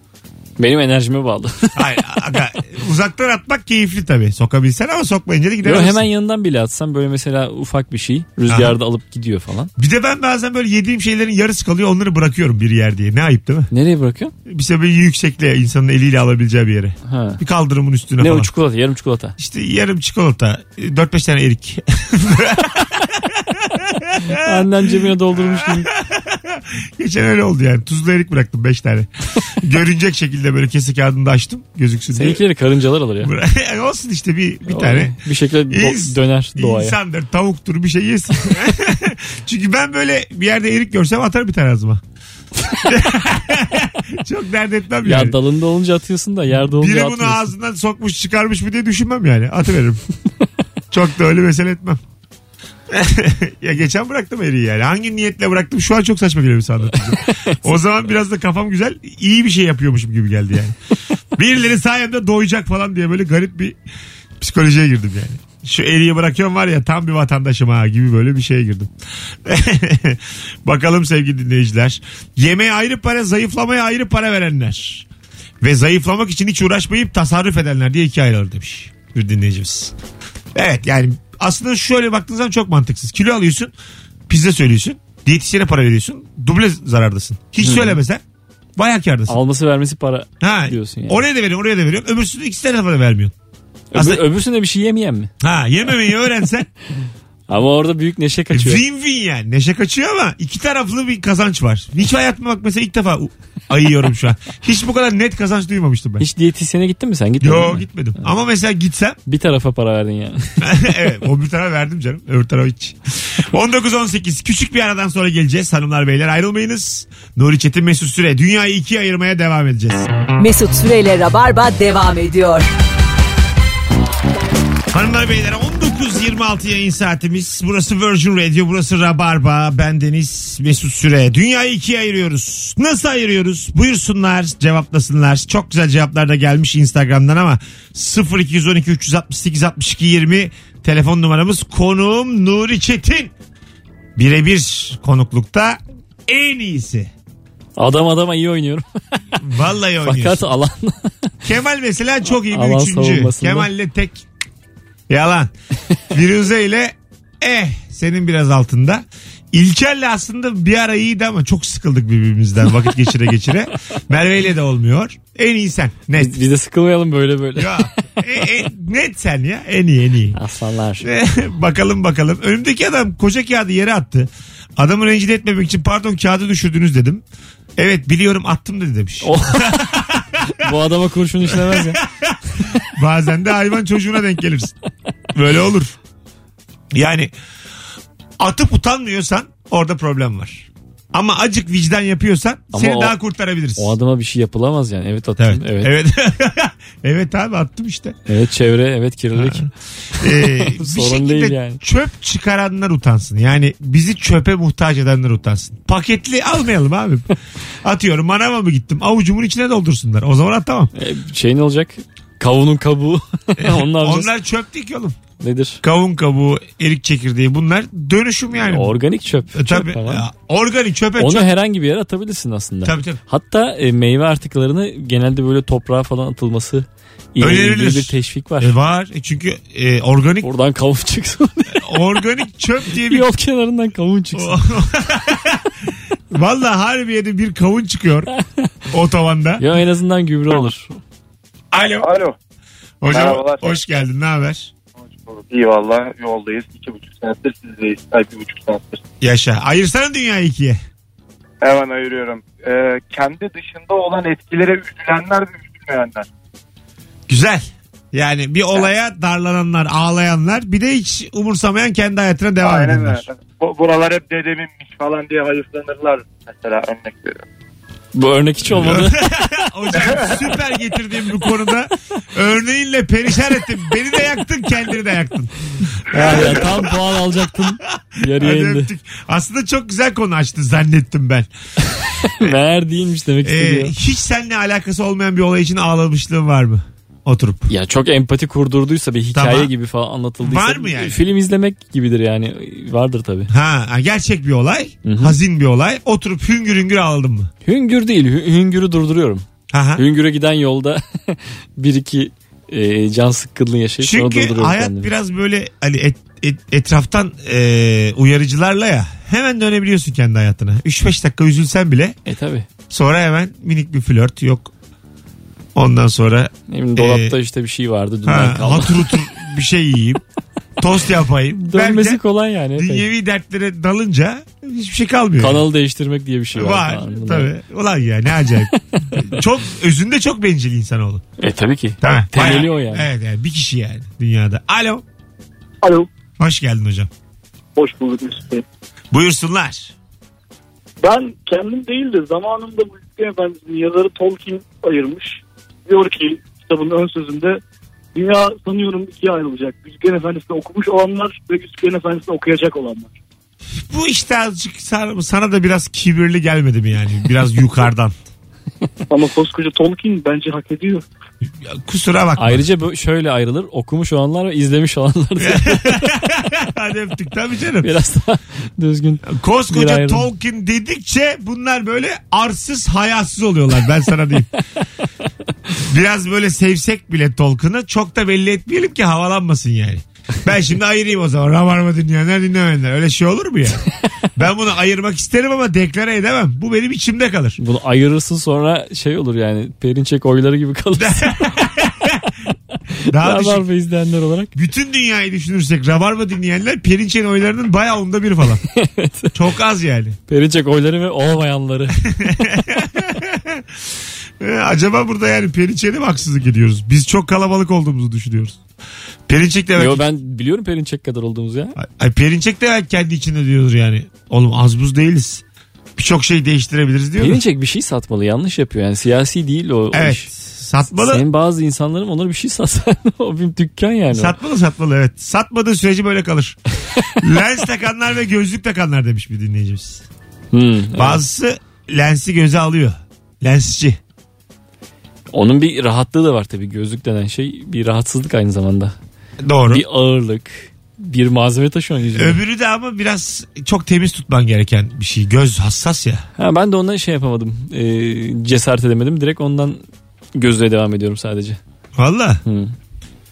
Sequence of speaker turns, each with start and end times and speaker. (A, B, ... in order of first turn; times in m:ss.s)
0:00.6-0:01.8 A
0:01.7-0:06.0 B
0:05.6-0:09.7 A
0:08.5-0:08.7 B
0:09.8-0:13.7 B
0:13.7-0:14.3 A
0:14.4-0:18.5 B
0:17.0-0:17.4 A
0:18.2-0:19.4 A
0:19.4-0:24.7 B
0:24.3-0:25.9 A
0:25.3-0:32.4 B
0:32.1-0:33.3 A
0:33.2-0:35.2 B
0:34.7-0:37.0 A
0:35.7-0:42.0 B
0:42.8-0:45.4 B
0:45.0-0:47.5 A
0:46.8-0:50.0 B
0:50.9-0:52.0 B
0:52.9-1:00.8 B
0:57.2-0:57.7 A
1:01.3-1:03.8 B
1:04.4-1:08.9 B
1:09.4-1:15.0 B
1:15.6-1:19.9 B
1:20.5-1:23.7 B
1:24.3-1:28.2 B
1:27.6-1:28.0 A
1:28.8-1:29.4 B
1:29.3-1:31.2 A
1:30.4-1:33.3 B
1:33.9-1:35.3 A
1:33.9-1:34.2 B
1:35.4-1:36.7 B
1:37.5-1:38.8 A
1:38.5-1:46.2 B
1:46.2-1:48.2 A
1:47.4-1:49.2 B
1:49.2-1:50.5 A
1:50.6-2:00.1 B
2:00.4-2:02.7 C
2:04.9-2:23.3 B
2:24.2-2:27.1 B
2:27.8-2:29.2 A
2:29.4-2:30.4 B
2:30.0-2:31.3 A
2:31.4-2:34.2 B
2:32.5-2:33.7 A
2:35.1-2:35.5 B
2:36.1-2:46.4 B
2:46.2-2:47.9 A
2:47.6-2:50.4 B
2:50.3-2:51.1 A
2:51.0-2:57.2 B
2:57.8-3:00.6 B
2:59.2-2:59.9 A
3:00.5-3:02.0 A
3:01.5-3:04.7 B
3:05.3-3:05.9 B
3:06.9-3:07.3 B
3:08.4-3:14.0 B
3:12.7-3:13.1 A
3:13.8-3:15.9 A
3:15.4-3:18.2 B
3:18.3-3:21.8 A
3:19.4-3:30.9 B
3:30.9-3:34.3 A
3:33.6-3:35.2 B
3:35.4-3:35.8 A
3:35.8-3:39.0 B
3:38.6-3:40.2 A
3:39.5-3:41.5 B
3:41.2-3:48.7 A
3:42.8-3:43.2 B
3:47.4-3:50.5 B
3:50.4-3:52.0 A
3:51.7-3:53.3 B
3:52.9-3:54.6 A
3:54.3-3:58.3 B
3:58.9-3:59.6 B
3:59.6-4:01.0 A
4:01.7-4:02.1 B
4:02.0-4:02.4 D
4:03.0-4:04.7 B
4:03.0-4:03.9 D
4:05.0-4:09.0 D
4:09.2-4:10.8 B
4:11.6-4:16.3 D
4:17.3-4:23.2 B
4:22.6-4:27.4 D
4:28.1-4:29.2 A
4:28.7-4:35.5 B
4:29.9-4:30.4 D
4:36.1-4:38.9 A
4:36.1-4:41.5 B
4:41.8-4:43.9 A
4:42.2-4:42.5 B
4:43.4-4:47.7 B
4:47.7-4:53.5 A
4:49.3-4:49.7 B
4:50.4-4:51.2 B
4:53.5-4:57.5 B
4:55.0-4:55.4 A
4:57.6-5:05.1 A
4:59.7-5:00.0 B
5:04.0-5:12.2 B
5:12.2-5:12.7 A
5:12.9-5:14.7 B
5:15.7-5:17.4 B
5:16.7-5:19.1 A
5:18.2-5:20.2 B
5:20.8-5:22.2 B
5:21.6-5:23.1 A
5:22.7-5:25.6 B
5:25.4-5:27.5 A
5:26.5-5:31.2 B
5:29.0-5:29.2 A
5:31.4-5:33.1 A
5:32.0-5:35.0 B
5:35.8-5:36.1 E
5:36.4-5:37.1 B
5:37.8-5:38.6 E
5:39.1-5:39.9 B
5:41.0-5:47.6 E
5:48.1-5:53.1 E
5:53.8-5:58.2 B
5:59.1-6:01.0 E
6:01.6-6:02.6 B
6:02.4-6:06.1 A
6:05.4-6:07.9 B
6:07.8-6:10.3 A
6:09.2-6:14.5 B
6:15.8-6:23.8 B
6:24.4-6:27.6 B
6:27.6-6:31.6 A
6:31.0-6:32.3 B
6:32.9-6:34.5 A
6:33.1-6:33.6 B
6:34.5-6:38.6 B
6:38.7-6:39.3 A
6:39.3-6:40.2 B
6:40.3-6:42.0 A
6:42.0-6:43.6 B
6:44.4-6:48.6 B
6:49.3-6:50.0 B
6:49.8-6:51.7 A
6:51.8-6:55.4 B
6:56.0-6:57.4 B
6:57.2-7:00.4 A
6:59.9-7:01.2 B
7:00.9-7:04.3 A
7:04.1-7:06.6 B
7:07.2-7:10.0 B
7:10.5-7:11.2 A
7:11.0-7:14.0 B
7:15.3-7:19.0 A
7:19.4-7:19.8 B
7:19.7-7:22.4 A
7:22.1-7:26.2 B
7:26.4-7:29.8 A
7:30.4-7:31.6 A
7:32.0-7:32.4 B
7:32.4-7:32.7 A